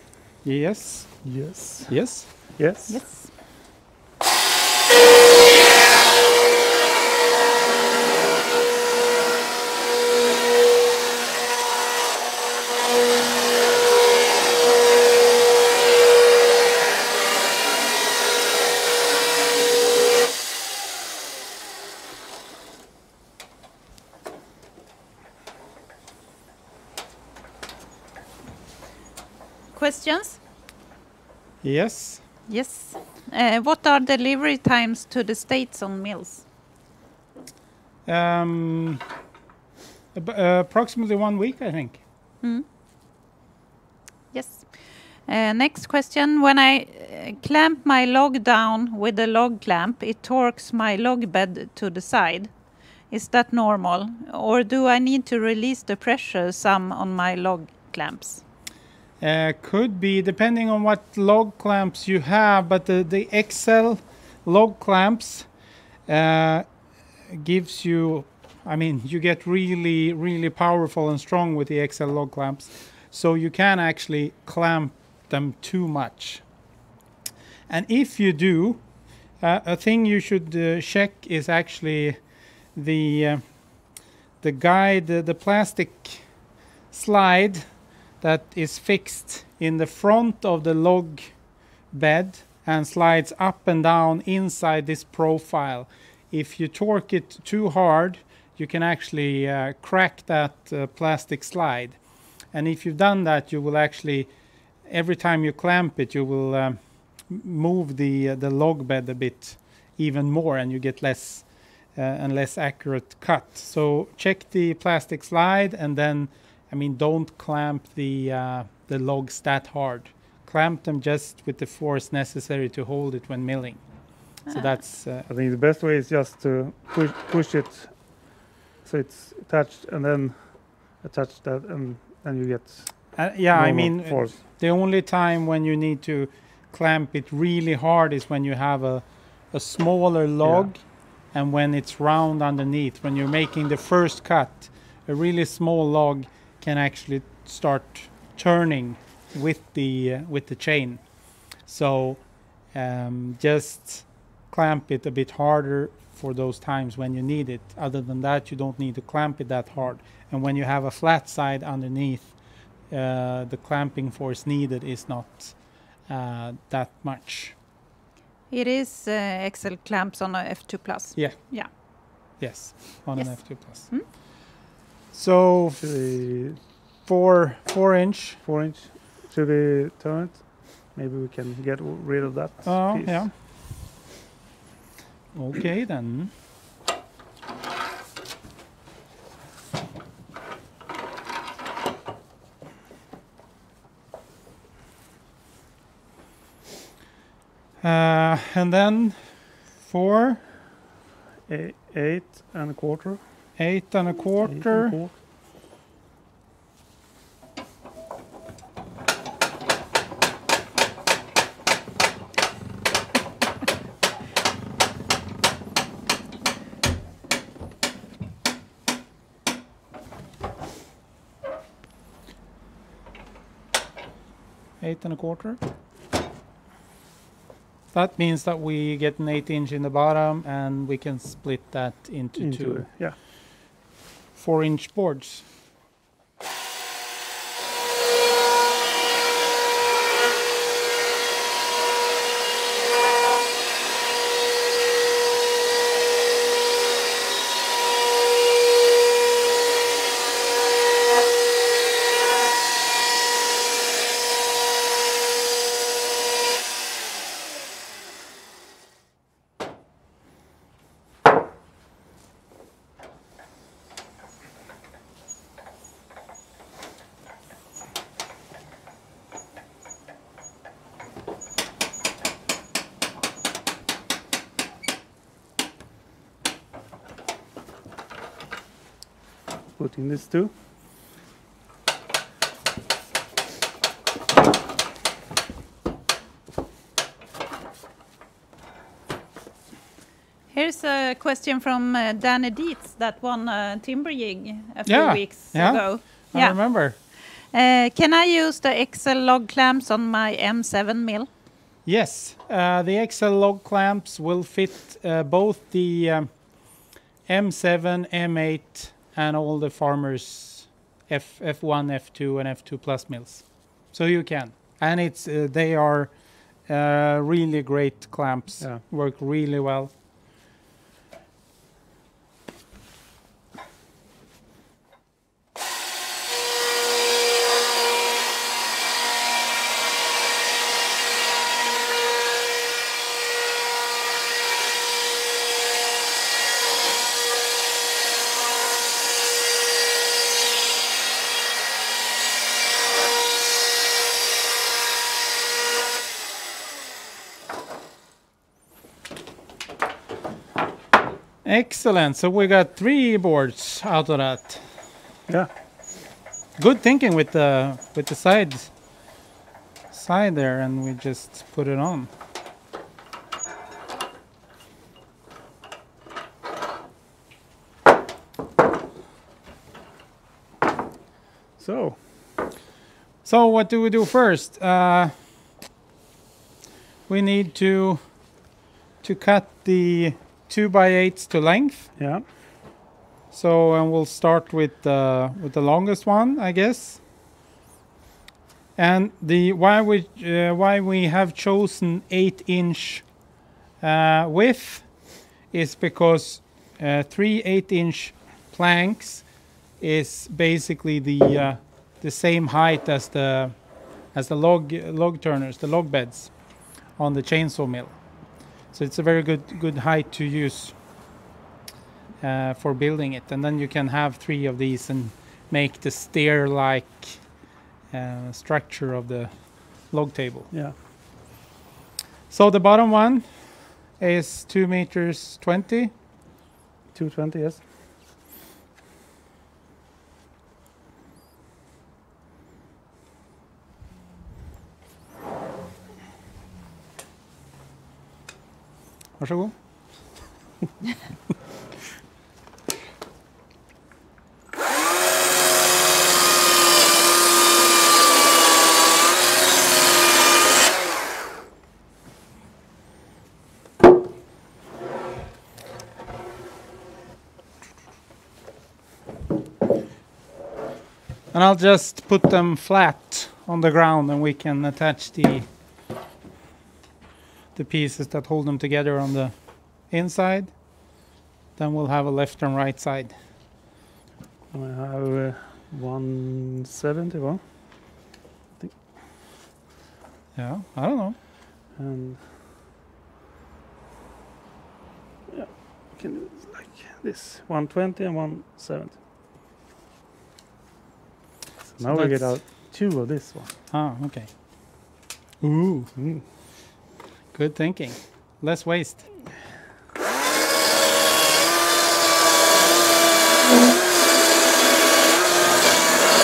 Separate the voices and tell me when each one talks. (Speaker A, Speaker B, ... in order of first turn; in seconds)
Speaker A: 0.4-2.5, 31.6-32.2, 38.0-39.0, 40.1-42.0, 59.2-65.5, 66.1-66.7, 67.3-76.4, 77.7-78.8, 79.4-82.2, 82.7-83.7, 84.4-86.3, 86.9-87.7, 88.2-91.4, 91.9-102.0, 102.5-104.3, 104.8-125.3, 133.2-162.4, 162.9-167.6, 171.2-174.2, 175.1-175.8, 177.0-178.4, 182.6-183.3, 185.3-186.3, 197.8-200.4, 203.6-205.0, 224.8-225.6, 227.9-232.9, 234.4-235.5, 294.9-297.0, 301.9-319.9, 351.4-354.6, 356.6-358.7, 359.9-362.1, 373.2-375.1, 377.1-378.0, 379.0-381.9, 383.3-387.0, 388.8-393.1, 393.8-403.6, 404.1-408.0, 408.7-410.8, 412.2-417.2, 417.9-420.5, 422.3-425.9, 439.2-439.6, 461.3-465.5, 467.6-470.6, 471.6-473.1, 480.4-481.2, 491.8-492.4, 493.7-494.8, 495.4-495.9, 497.3-499.1
Speaker B: 1.2-3.0, 125.3-134.4, 140.4-140.7, 175.8-176.6, 178.4-183.3, 201.5-203.2, 204.4-205.2, 232.4-233.2, 279.8-280.5, 371.6-372.0, 382.0-382.2, 426.9-427.6, 474.5-478.8, 481.7-482.3, 485.3-489.0, 491.7-493.5, 495.9-496.2
Speaker C: 2.9-3.3, 29.7-30.4, 32.5-36.4, 44.3-52.5, 53.1-58.4, 168.5-171.7, 173.2-174.1, 290.5-301.3